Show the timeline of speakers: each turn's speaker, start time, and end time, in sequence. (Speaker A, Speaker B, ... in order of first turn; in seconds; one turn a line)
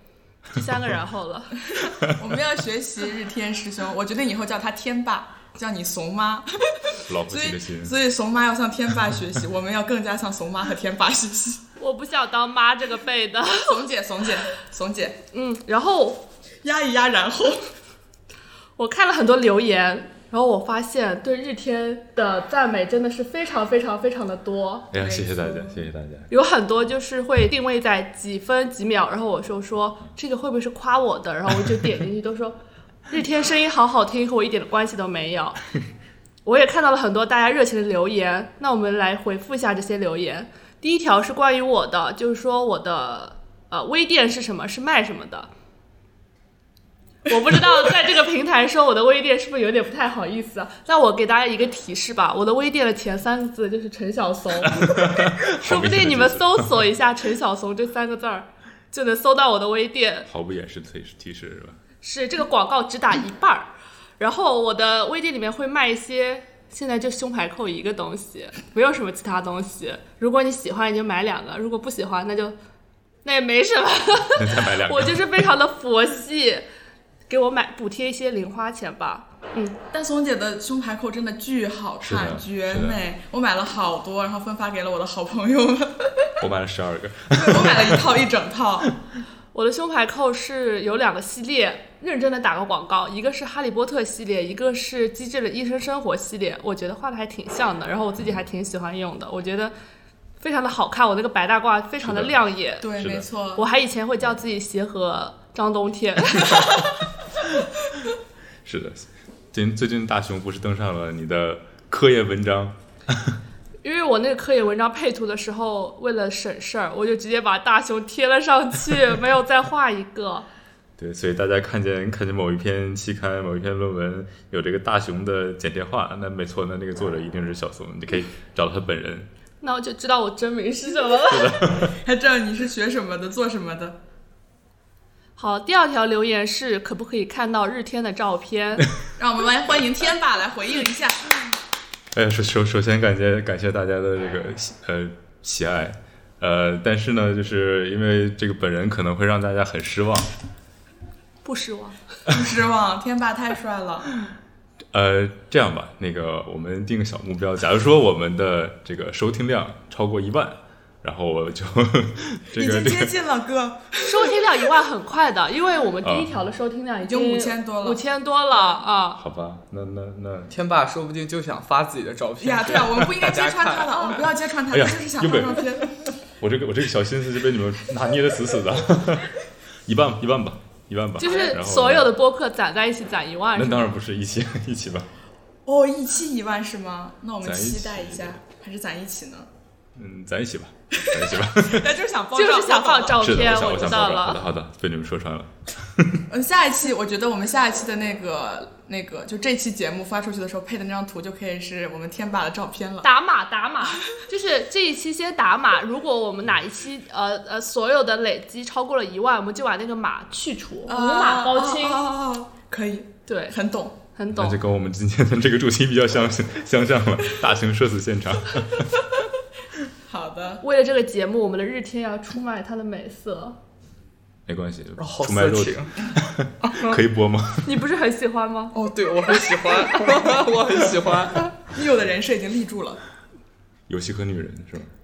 Speaker A: 0.5-1.9
Speaker B: 2.0-11.6
Speaker C: 7.0-8.0
Speaker A: 11.8-13.8
Speaker B: 13.6-15.2
Speaker A: 15.3-16.2
Speaker B: 16.6-17.7
Speaker A: 18.8-24.9
Speaker C: 24.9-26.3
Speaker B: 24.9-25.8
Speaker A: 26.3-32.6
Speaker A: 33.1-35.6
Speaker A: 36.4-45.5
Speaker A: 47.3-60.3
Speaker C: 54.6-56.9
Speaker C: 60.3-61.8
Speaker A: 62.0-72.5
Speaker A: 73.2-76.6
Speaker C: 74.3-75.3
Speaker A: 77.3-79.8
Speaker B: 79.9-86.3
Speaker C: 82.0-83.0
Speaker C: 86.4-88.1
Speaker B: 87.3-88.9
Speaker A: 89.5-99.7
Speaker A: 100.4-102.9
Speaker C: 102.0-102.3
Speaker B: 102.8-103.6
Speaker C: 103.0-103.3
Speaker A: 103.5-106.9
Speaker C: 108.6-113.3
Speaker A: 113.8-120.5
Speaker C: 121.0-129.3
Speaker A: 129.6-131.7
Speaker C: 131.3-132.0
Speaker B: 131.7-134.0
Speaker A: 135.4-138.9
Speaker B: 139.2-141.3
Speaker C: 142.1-150.3
Speaker A: 151.4-152.0
Speaker B: 152.3-154.1
Speaker C: 154.9-163.2
Speaker B: 162.6-164.4
Speaker A: 164.0-169.2
Speaker C: 166.0-166.3
Speaker B: 167.0-168.0
Speaker B: 168.5-168.8
Speaker C: 169.2-170.5
Speaker D: 170.5-174.4
Speaker B: 172.4-175.9
Speaker C: 174.7-175.7
Speaker C: 176.4-182.1
Speaker A: 181.2-183.9
Speaker C: 183.5-185.1
Speaker B: 185.7-189.5
Speaker C: 187.4-188.4
Speaker C: 189.9-191.9
Speaker B: 191.0-193.2
Speaker A: 192.3-194.4
Speaker C: 193.2-196.2
Speaker B: 196.3-203.1
Speaker A: 203.0-212.0
Speaker B: 210.9-214.0
Speaker A: 213.2-213.6
Speaker A: 214.1-214.6
Speaker C: 214.3-219.1
Speaker B: 220.1-220.6
Speaker A: 220.6-223.6
Speaker C: 224.5-227.8
Speaker D: 225.0-226.1
Speaker D: 226.6-227.0
Speaker A: 227.6-228.7
Speaker D: 228.7-231.6
Speaker A: 229.3-230.2
Speaker B: 231.7-233.0
Speaker C: 233.9-234.9